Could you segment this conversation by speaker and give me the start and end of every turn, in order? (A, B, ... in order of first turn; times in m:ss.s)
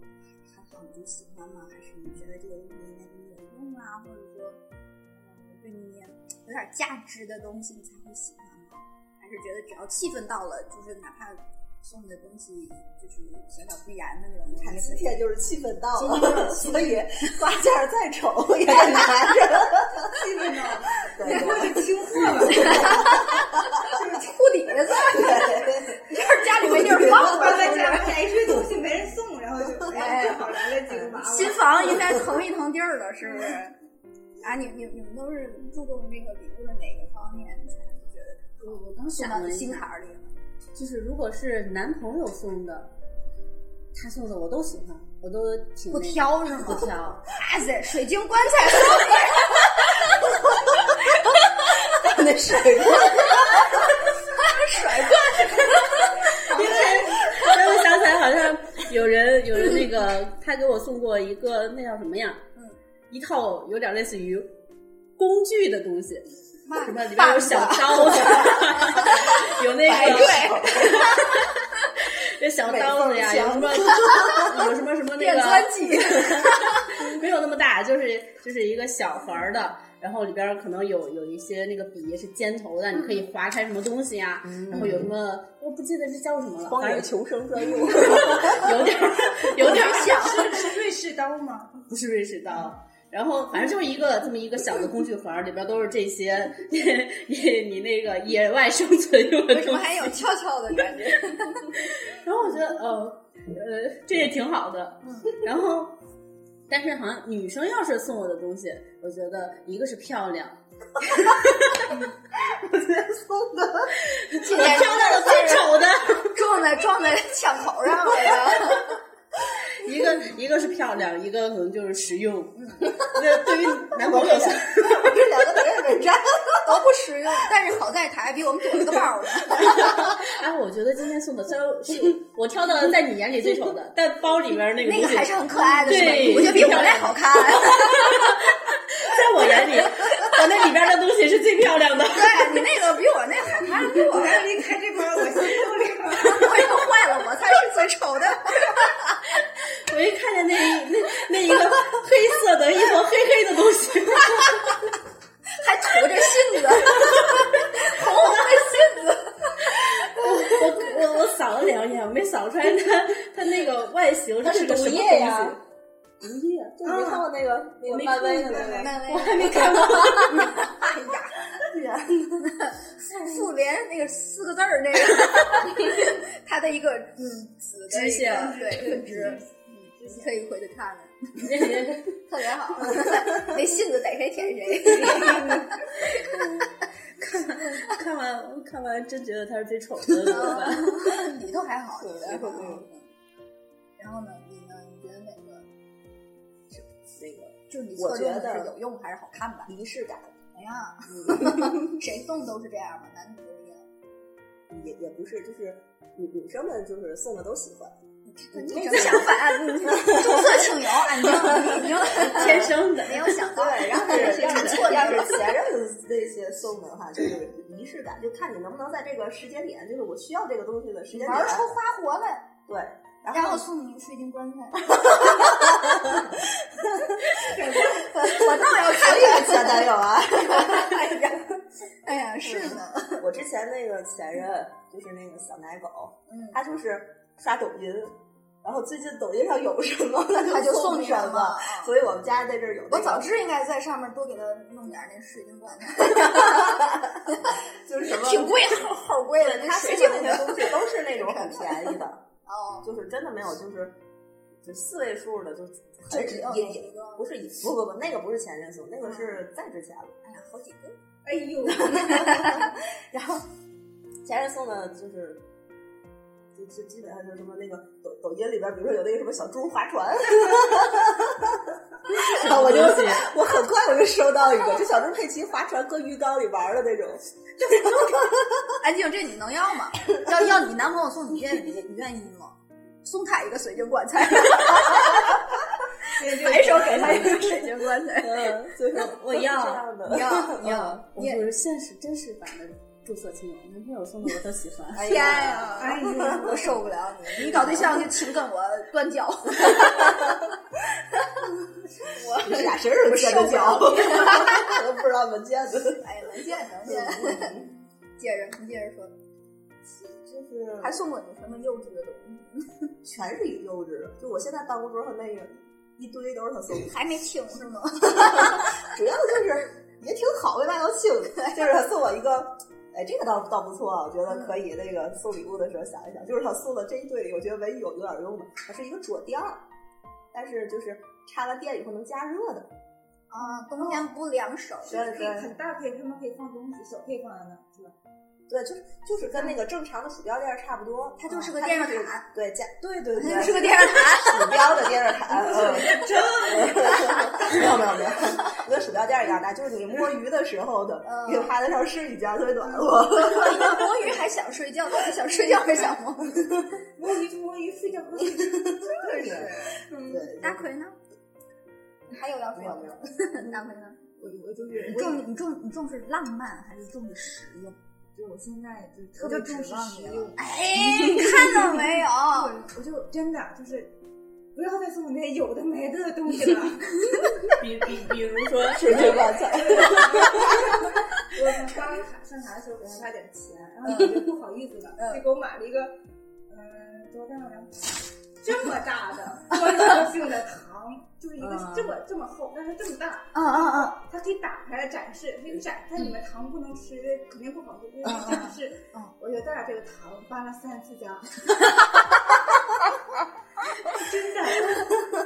0:00.4-0:04.6 A
0:05.1-0:15.2 A
0:14.6-0:20.2 B
0:16.0-0:17.0 A
0:20.1-0:23.1 C
0:21.0-0:23.4 B
0:21.2-0:21.5 A
0:22.5-0:28.2 A
0:23.9-0:24.3 C
0:25.0-0:26.0 B
0:26.6-0:27.7 B
0:26.8-0:32.1 C
0:29.9-0:30.5 A
0:31.2-0:33.7 A
0:34.4-0:40.3 A
0:38.6-0:39.9 D
0:40.7-0:42.9 D
0:43.9-0:47.3 D
0:45.9-0:49.9 A
0:51.9-0:53.9 B
0:53.2-0:53.7 A
0:54.3-0:57.5 A
0:56.5-1:02.4 D
0:56.5-0:56.8 C
1:03.1-1:04.5 D
1:05.2-1:11.3 D
1:06.6-1:09.2 A
1:07.9-1:11.3 B
1:09.9-1:11.0 A
1:12.0-1:27.1 D
1:12.6-1:14.7 B
1:15.2-1:16.9 A
1:24.5-1:25.1 B
1:26.6-1:28.9 B
1:27.8-1:30.2 D
1:29.4-1:30.6 A
1:29.6-1:31.8 C
1:31.9-1:40.1 D
1:39.5-1:41.7 A
1:42.1-1:46.0 D
1:46.7-1:51.9 D
1:52.5-1:54.0 B
1:54.1-1:56.3 D
1:54.4-1:55.6 A
1:54.5-1:55.7 B
1:56.3-1:58.9 A
1:59.8-2:05.0 D
2:02.6-2:02.8 A
2:03.8-2:06.8 B
2:06.6-2:10.1 A
2:09.8-2:22.6 D
2:14.8-2:18.4 A
2:22.0-2:24.4 A
2:23.9-2:26.7 C
2:26.2-2:28.9 A
2:29.4-2:34.8 D
2:35.5-2:39.8 A
2:39.8-2:45.6 D
2:44.4-2:45.6 B
2:46.2-2:50.4 B
2:46.8-2:47.3 C
2:47.9-2:50.5 D
2:47.9-2:49.0 C
2:48.8-2:51.4 A
2:51.5-2:52.5 B
2:52.6-3:06.6 A
2:57.9-2:59.0 D
2:58.2-3:00.3 C
3:01.4-3:02.2 D
3:02.9-3:03.5 B
3:04.8-3:05.7 C
3:07.2-3:11.1 D
3:10.2-3:13.1 A
3:12.0-3:12.9 B
3:14.0-3:15.7 A
3:16.7-3:18.7 B
3:17.7-3:19.7 A
3:19.6-3:20.4 B
3:20.5-3:23.8 A
3:21.1-3:21.8 B
3:24.7-3:27.9 B
3:28.2-3:35.5 A
3:28.6-3:30.7 B
3:31.2-3:32.5 B
3:32.1-3:35.1 D
3:33.4-3:41.7 B
3:41.1-3:42.5 A
3:42.7-3:43.7 B
3:43.3-3:45.7 A
3:44.9-3:46.3 B
3:47.4-3:48.0 C
3:47.9-3:51.2 B
3:47.9-3:53.2 A
3:52.4-4:03.3 B
3:56.3-3:56.6 A
4:00.4-4:01.9 A
4:02.9-4:12.9 A
4:06.2-4:06.8 B
4:07.8-4:12.2 B
4:12.8-4:14.0 B
4:14.6-4:20.2 B
4:16.1-4:17.3 A
4:19.0-4:19.4 A
4:20.2-4:21.0 A
4:21.2-4:22.7 C
4:21.9-4:23.4 B
4:22.1-4:22.6 A
4:24.2-4:25.4 B
4:26.5-4:38.4 B
4:32.2-4:33.3 D
4:37.6-4:48.6 A
4:46.1-4:47.4 C
4:46.6-4:47.6 B
4:48.2-4:50.8 B
4:48.9-4:49.8 D
4:50.0-4:51.4 A
4:50.5-4:55.3 D
4:54.9-5:00.4 A
4:55.2-4:56.8 C
4:56.0-4:56.8 B
4:57.3-4:58.1 B
4:57.4-4:57.9 D
5:02.0-5:04.7 A
5:02.3-5:06.0 B
5:06.0-5:07.6 A
5:06.8-5:07.7 B
5:08.2-5:09.1 A
5:10.0-5:11.0 B
5:10.8-5:12.9 A
5:13.0-5:16.9 B
5:16.8-5:18.9 A
5:18.1-5:29.6 B
5:24.3-5:24.6 A
5:30.3-5:32.7 B
5:33.3-5:35.1 A
5:33.8-5:34.0 C
5:34.8-5:35.5 B
5:34.9-5:37.9 C
5:38.5-5:54.2 B
5:41.2-5:42.3 A
5:43.1-5:44.9 A
5:45.2-5:47.3 C
5:46.1-5:47.4 A
5:51.0-5:51.5 A
5:52.7-5:56.5 A
5:57.0-5:58.9 C
5:58.3-6:00.6 B
5:58.9-6:01.0 A
5:59.8-6:00.2 C
6:02.1-6:04.0 A
6:02.5-6:03.0 B
6:04.2-6:05.2 C
6:04.8-6:07.8 A
6:08.1-6:13.9 C
6:09.2-6:12.5 A
6:14.5-6:17.5 C
6:17.5-6:19.4 D
6:18.7-6:20.7 B
6:19.0-6:26.0 C
6:25.0-6:25.2 A
6:26.5-6:41.5 C
6:33.3-6:34.0 A
6:38.0-6:39.1 A
6:43.8-6:45.0 C